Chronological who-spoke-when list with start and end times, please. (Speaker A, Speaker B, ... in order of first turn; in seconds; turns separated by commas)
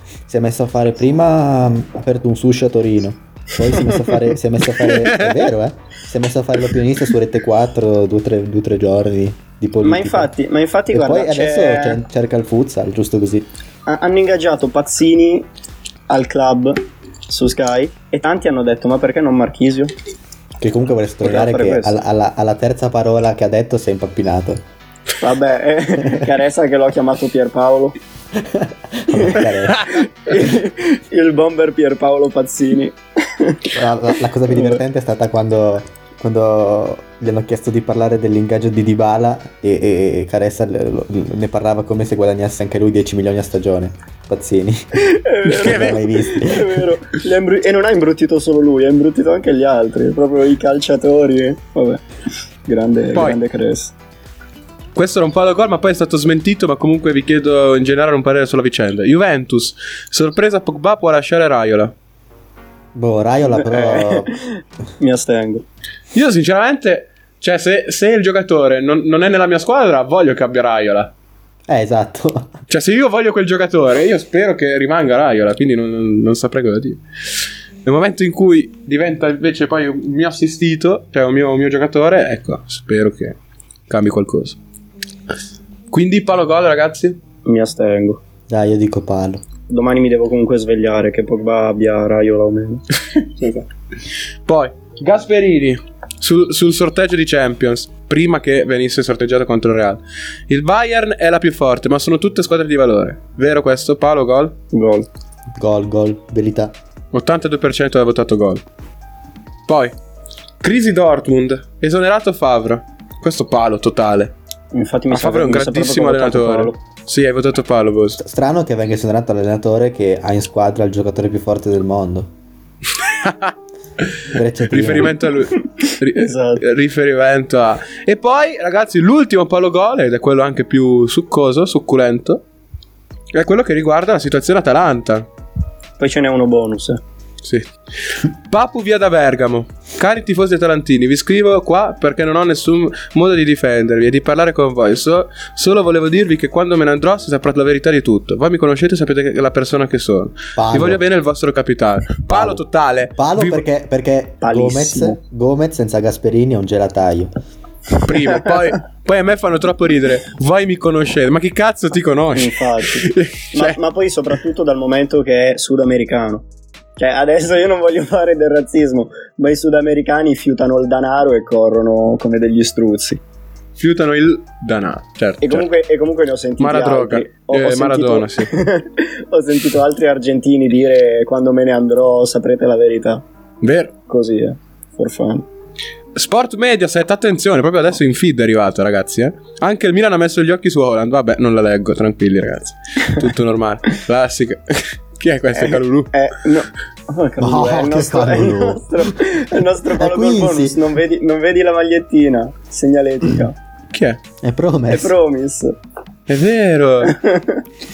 Speaker A: 0.3-10.3, Speaker B: 3.7-4.2, Speaker C: 4.8-5.5, Speaker B: 9.8-12.0, Speaker A: 10.9-13.5, Speaker B: 13.9-15.5, Speaker B: 16.1-19.9, Speaker A: 20.6-24.6, Speaker B: 21.2-22.0, Speaker B: 25.2-27.9, Speaker A: 28.3-29.9, Speaker B: 29.1-33.7, Speaker A: 33.7-46.9, Speaker B: 34.5-34.8, Speaker B: 45.0-52.0, Speaker C: 45.5-46.0, Speaker B: 52.7-53.9, Speaker C: 55.0-61.9, Speaker A: 63.0-64.3, Speaker B: 63.5-65.7, Speaker C: 66.1-71.1, Speaker A: 71.7-72.5, Speaker C: 72.7-77.0, Speaker C: 77.8-83.4, Speaker C: 83.9-84.6, Speaker C: 85.9-87.2, Speaker B: 87.5-88.2, Speaker A: 88.5-89.4, Speaker B: 89.7-92.8, Speaker C: 94.5-104.6, Speaker B: 104.7-105.1, Speaker A: 105.6-106.8, Speaker C: 107.1-108.6, Speaker C: 109.7-109.9, Speaker C: 110.6-114.3, Speaker B: 114.7-116.8, Speaker C: 115.1-118.2, Speaker A: 118.2-122.3, Speaker C: 123.0-123.5, Speaker A: 124.3-125.2, Speaker C: 124.7-132.4, Speaker B: 126.1-126.6, Speaker C: 133.3-135.3, Speaker B: 136.0-137.0, Speaker C: 137.4-153.7, Speaker A: 150.6-151.0, Speaker A: 152.3-152.6, Speaker A: 153.2-157.3, Speaker B: 154.4-155.2, Speaker C: 158.0-163.8, Speaker B: 162.3-166.5, Speaker B: 167.0-173.2, Speaker C: 173.8-175.7, Speaker B: 175.4-183.2, Speaker C: 176.6-178.5, Speaker C: 183.6-183.9, Speaker B: 184.1-185.5, Speaker C: 186.2-196.2, Speaker B: 195.5-203.6, Speaker A: 197.4-199.1, Speaker A: 199.9-200.8, Speaker C: 203.9-204.2, Speaker A: 204.4-205.2, Speaker B: 204.9-205.8, Speaker C: 206.3-207.2, Speaker B: 207.1-207.6